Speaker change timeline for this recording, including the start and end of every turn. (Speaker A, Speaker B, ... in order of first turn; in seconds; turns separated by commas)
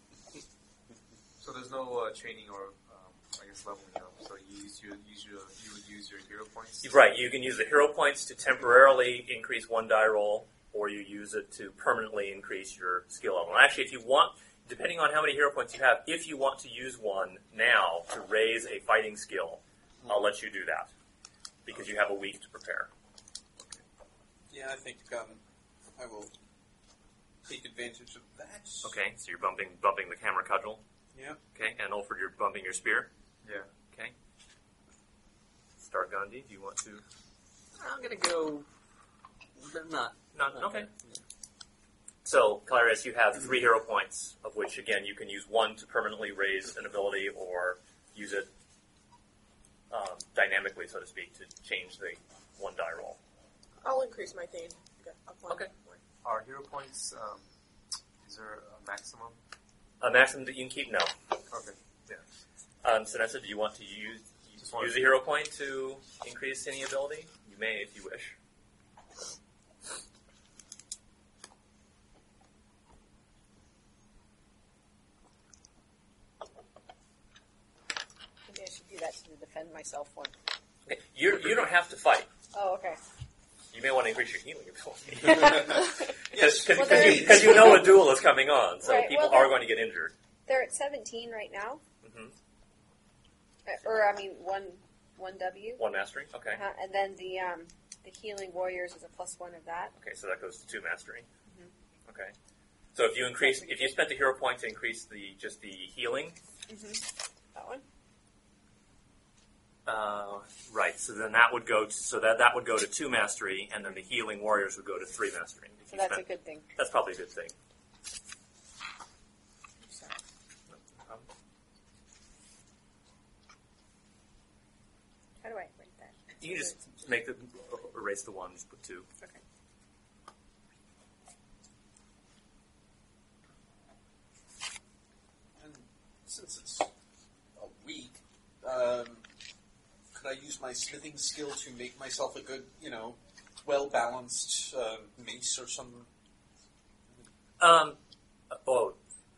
Speaker A: 1.4-6.9, Speaker B: 6.8-20.9, Speaker B: 21.6-22.9, Speaker C: 24.5-25.4, Speaker C: 26.0-26.3, Speaker C: 27.4-28.9, Speaker B: 28.8-30.8, Speaker C: 31.1-31.4, Speaker B: 31.5-33.1, Speaker B: 35.8-37.0, Speaker D: 37.8-38.6, Speaker D: 39.6-41.2, Speaker B: 40.3-40.9, Speaker B: 42.2-48.5, Speaker B: 49.9-53.2, Speaker E: 53.8-56.0, Speaker A: 56.2-57.4, Speaker A: 58.2-59.4, Speaker B: 60.0-61.1, Speaker A: 61.5-61.8, Speaker B: 62.8-68.3, Speaker A: 64.6-65.0, Speaker F: 78.5-80.3, Speaker B: 80.9-82.3, Speaker F: 82.5-83.0, Speaker B: 83.7-90.1, Speaker F: 85.2-85.9, Speaker C: 85.4-85.7, Speaker C: 86.3-87.8, Speaker F: 86.7-87.8, Speaker F: 88.8-89.7, Speaker F: 90.5-91.8, Speaker B: 92.0-92.3, Speaker F: 93.7-95.8, Speaker B: 95.8-96.6, Speaker F: 96.5-99.9, Speaker B: 100.0-101.3, Speaker F: 101.5-101.7, Speaker B: 102.1-102.3, Speaker B: 102.9-106.4, Speaker F: 103.4-103.9, Speaker F: 106.7-107.8, Speaker B: 109.8-117.5, Speaker F: 115.9-116.7, Speaker F: 119.9-120.1, Speaker B: 120.7-121.3, Speaker F: 125.4-126.7, Speaker B: 126.4-129.1, Speaker C: 135.6-136.9, Speaker C: 137.6-139.2, Speaker C: 140.1-146.1, Speaker B: 147.6-148.0, Speaker B: 148.5-149.0